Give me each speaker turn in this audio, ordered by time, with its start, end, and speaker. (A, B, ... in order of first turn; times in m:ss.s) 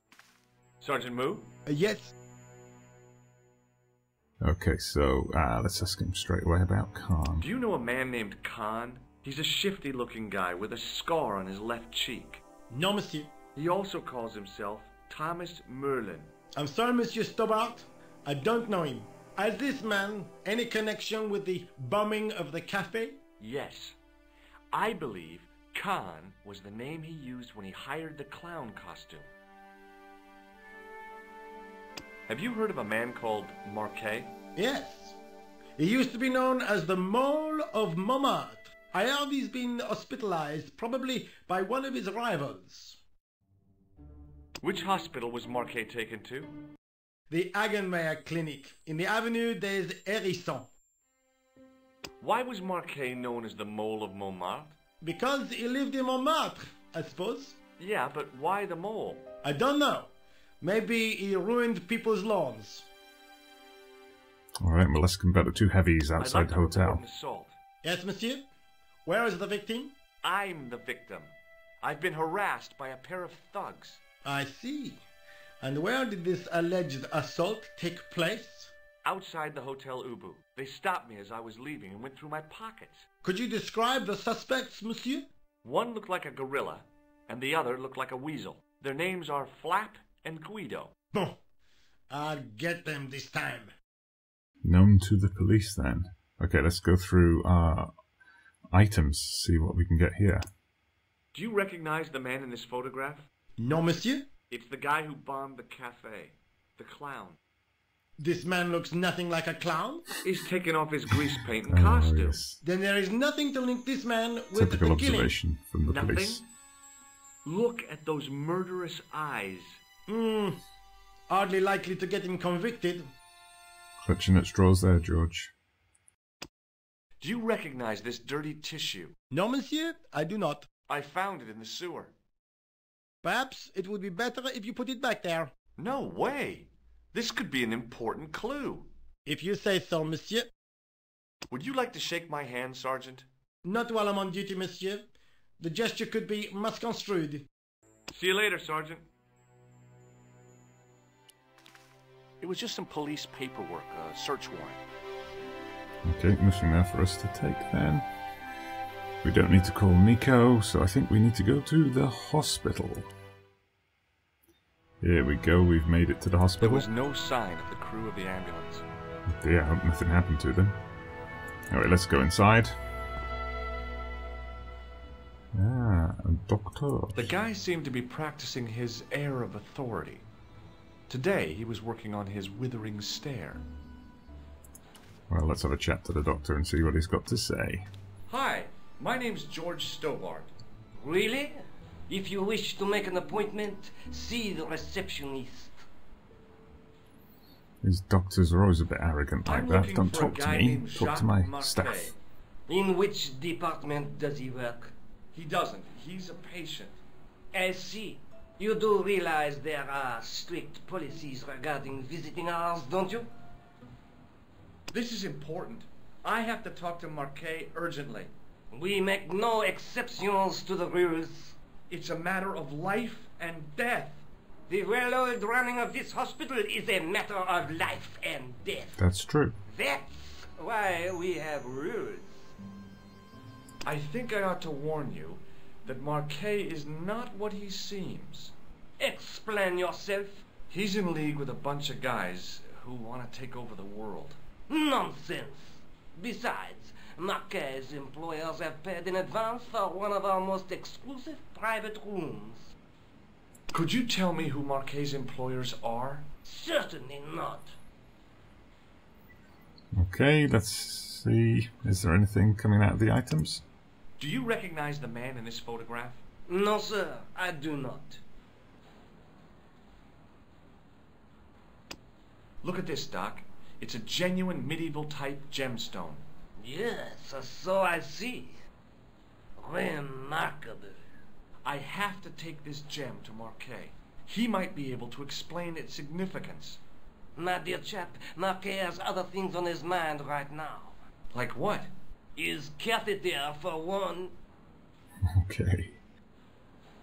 0:00.8-0:01.5 A
0:01.6-0:02.1 B
0:04.4-0:07.5 C
0:07.4-0:12.4 A
0:12.7-0:13.3 B
0:13.6-0:16.3 A
0:16.6-0:23.2 B
0:23.4-0:24.0 A
0:24.7-0:29.3 A
0:32.3-0:34.3 A
0:34.6-0:35.2 B
0:35.8-0:43.0 B
0:44.6-0:46.5 A
0:47.3-0:50.7 B
0:52.2-0:54.7 A
0:55.0-0:57.6 B
0:57.8-0:59.2 A
0:59.4-1:02.9 B
1:04.6-1:07.0 C
1:06.2-1:07.6 A
1:07.8-1:08.4 B
1:09.0-1:09.9 B
1:10.2-1:14.0 A
1:14.2-1:15.0 B
1:15.6-1:18.7 B
1:19.0-1:23.0 A
1:23.2-1:25.3 B
1:25.6-1:30.9 A
1:31.1-1:31.4 B
1:32.1-1:33.7 B
1:34.6-1:37.9 C
1:38.7-1:40.4 C
1:41.3-1:43.3 A
1:43.6-1:44.3 B
1:44.5-1:47.4 A
1:48.2-1:50.1 B
1:50.2-1:52.4 A
1:51.6-1:52.6 C
1:52.6-1:55.3 B
1:54.5-1:56.4 C
1:55.9-1:56.4 A
1:57.4-1:59.8 A
2:00.1-2:00.6 B
2:01.3-2:03.1 B
2:04.0-2:05.5 C
2:07.2-2:09.1 A
2:09.3-2:10.7 B
2:10.9-2:12.1 A
2:13.2-2:15.5 B
2:15.8-2:18.9 A
2:19.2-2:20.5 B
2:21.5-2:23.3 A
2:23.6-2:25.1 B
2:25.6-2:27.5 B
2:28.1-2:29.0 A
2:32.4-2:34.8 A
2:36.0-2:38.1 C
2:39.2-2:43.1 C
2:45.0-2:46.9 C
2:46.6-2:48.8 A
2:49.3-2:50.8 C
2:51.7-2:52.8 C
2:55.5-2:57.4 C
2:57.2-3:00.2 A
3:01.1-3:03.6 A
3:05.3-3:07.9 C
3:08.3-3:10.5 A
3:11.0-3:15.8 D
3:17.8-3:22.1 C
3:19.4-3:22.1 A
3:22.7-3:24.9 D
3:25.3-3:27.0 A
3:27.5-3:33.3 D
3:34.9-3:38.3 A
3:38.7-3:41.6 D
3:41.9-3:44.2 A
3:44.7-3:49.0 D
3:49.0-3:49.6 C
3:49.7-3:52.5 D
3:53.8-3:58.5 A
3:59.0-4:00.4 D
4:00.7-4:04.4 A
4:04.7-4:12.7 D
4:13.7-4:16.2 A
4:16.4-4:17.7 D
4:20.0-4:23.6 C
4:24.2-4:26.2 A
4:26.5-4:28.2 D
4:32.6-4:36.2 A
4:36.6-4:38.6 D
4:39.6-4:41.0 D
4:41.6-4:46.8 A
4:47.4-4:51.0 D
4:51.3-4:51.9 A
4:52.4-4:54.4 D
4:55.3-4:56.0 C